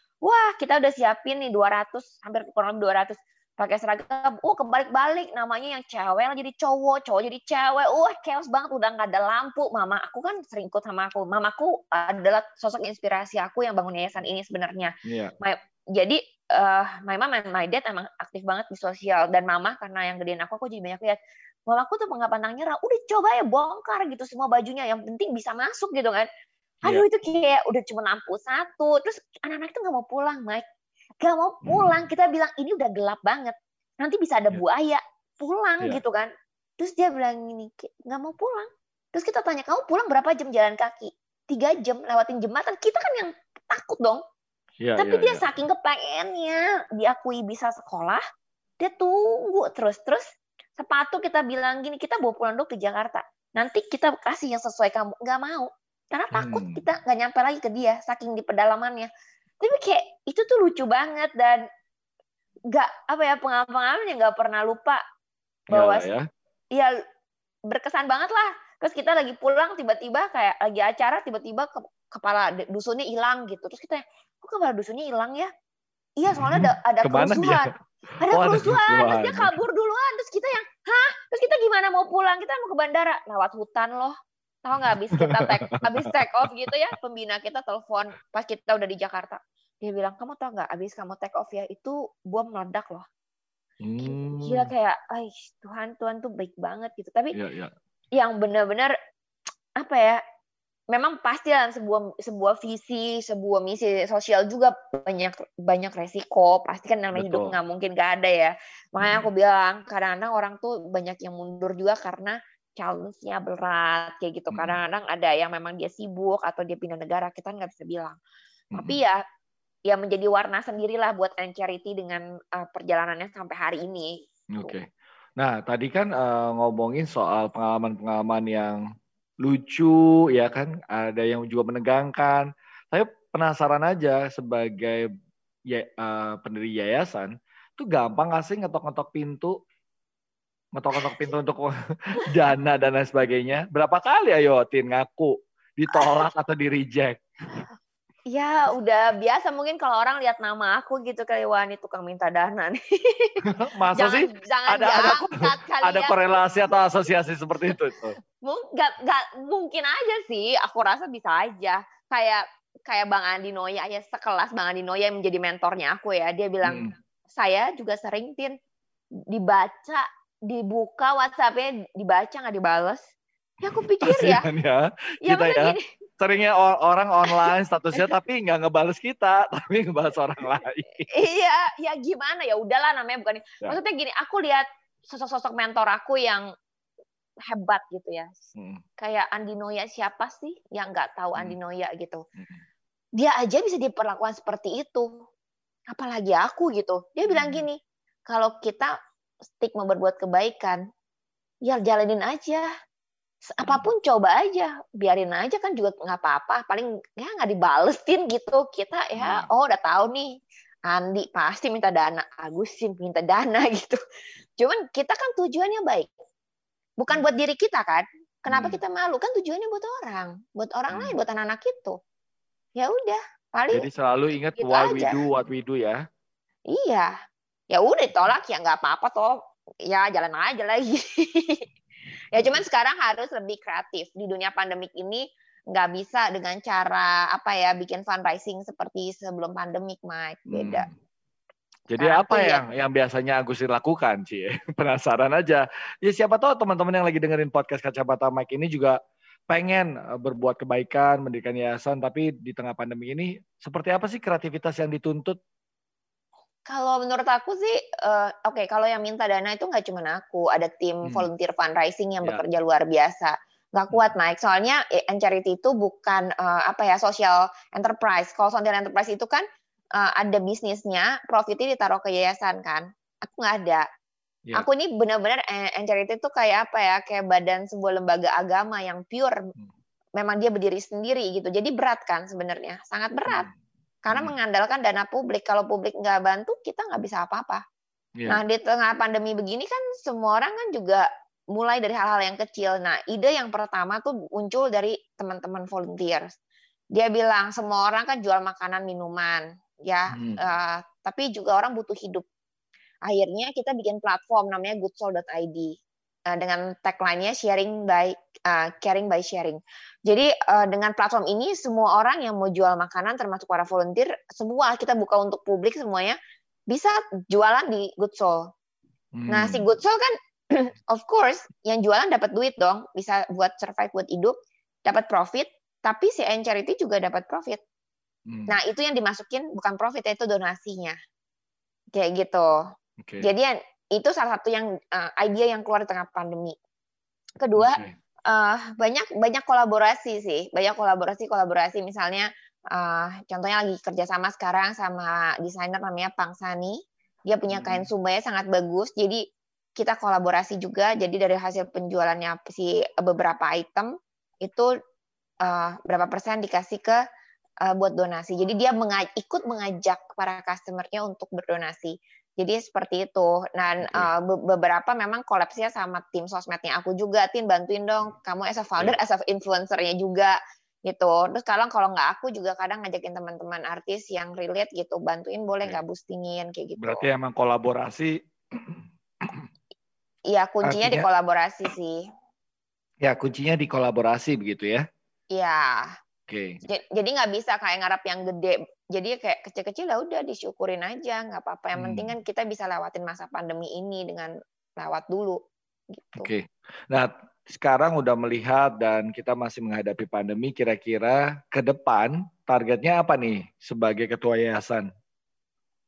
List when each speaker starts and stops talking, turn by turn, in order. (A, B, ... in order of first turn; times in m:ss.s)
0:00.2-0:26.3 A
0:15.0-0:15.3 B
0:26.8-0:30.6 A
0:31.2-0:44.2 A
0:44.8-0:45.4 B
0:45.0-0:48.2 A
0:48.8-0:50.2 A
0:50.8-0:59.1 A
0:56.3-0:56.8 B
0:59.6-1:01.6 A
1:02.7-1:05.0 A
1:05.7-1:06.1 A
1:05.7-1:06.2 B
1:07.7-1:15.5 A
1:16.2-1:33.0 A
1:16.4-1:17.7 B
1:18.3-1:19.5 B
1:25.2-1:25.9 B
1:33.8-1:34.7 B
1:34.0-1:37.3 A
1:37.3-1:37.7 B
1:38.1-1:38.9 A
1:39.8-1:40.2 A
1:40.9-1:58.2 A
1:47.1-1:47.5 B
1:49.0-1:49.3 B
1:54.5-1:54.8 B
1:58.7-1:59.0 B
1:58.8-1:59.2 A
1:59.9-2:04.7 A
2:04.5-2:08.8 B
2:09.4-2:15.1 B
2:15.7-2:19.6 B
2:20.7-2:27.6 B
2:25.9-2:26.2 A
2:28.3-2:36.7 A
2:33.5-2:38.2 B
2:38.4-2:48.6 A
2:46.6-2:46.9 B
2:49.3-2:53.0 A
2:53.6-2:54.4 A
2:54.0-3:01.1 B
2:55.2-2:55.8 A
2:57.3-2:58.1 A
3:01.1-3:06.5 A
3:07.5-3:08.3 A
3:08.5-3:08.8 B
3:09.0-3:12.2 A
3:12.4-3:12.6 B
3:13.2-3:15.1 A
3:15.9-3:18.9 A
3:17.3-3:17.6 B
3:19.6-3:20.8 A
3:21.6-3:22.6 A
3:23.6-3:30.3 A
3:23.6-3:23.9 B
3:29.2-3:29.5 B
3:30.9-3:34.0 A
3:34.6-3:36.1 A
3:37.0-3:42.0 A
3:38.5-3:38.8 B
3:40.9-3:41.2 B
3:42.8-3:43.9 A
3:43.7-3:46.0 B
3:44.6-3:45.2 A
3:46.7-3:47.1 A
3:47.7-3:51.6 A
3:52.3-4:00.9 A
3:52.3-3:52.6 B
4:00.5-4:00.9 B
4:01.9-4:09.0 B
4:02.0-4:02.6 A
4:09.5-4:15.4 B
4:16.6-4:29.4 A
4:30.0-4:33.8 A
4:34.5-4:39.5 A
4:40.2-4:43.5 A
4:44.0-4:47.6 A
4:44.1-4:44.4 B
4:48.2-4:48.4 B
4:48.3-4:56.3 A
4:56.9-5:02.2 A
5:00.1-5:00.4 B
5:03.1-5:05.7 A
5:06.3-5:16.2 A
5:16.7-5:18.5 A
5:19.1-5:19.6 B
5:19.3-5:24.3 A
5:24.8-5:27.6 A
5:28.3-5:28.5 B
5:28.5-5:31.0 A
5:31.9-5:32.6 A
5:33.0-5:33.3 B
5:33.2-5:36.6 A
5:37.4-5:49.2 A
5:37.6-5:37.9 B
5:47.5-5:47.9 B
5:49.8-5:53.9 A
5:54.4-5:54.7 A
5:55.4-5:57.0 A
5:57.6-6:17.0 A
6:03.8-6:04.1 B
6:16.8-6:19.4 B
6:20.3-6:22.0 A
6:20.6-6:21.0 B
6:23.0-6:24.8 B
6:25.3-6:25.9 A
6:26.3-6:26.6 B
6:26.6-6:35.4 A
6:31.8-6:32.1 B
6:35.9-6:36.3 A
6:36.2-6:44.9 B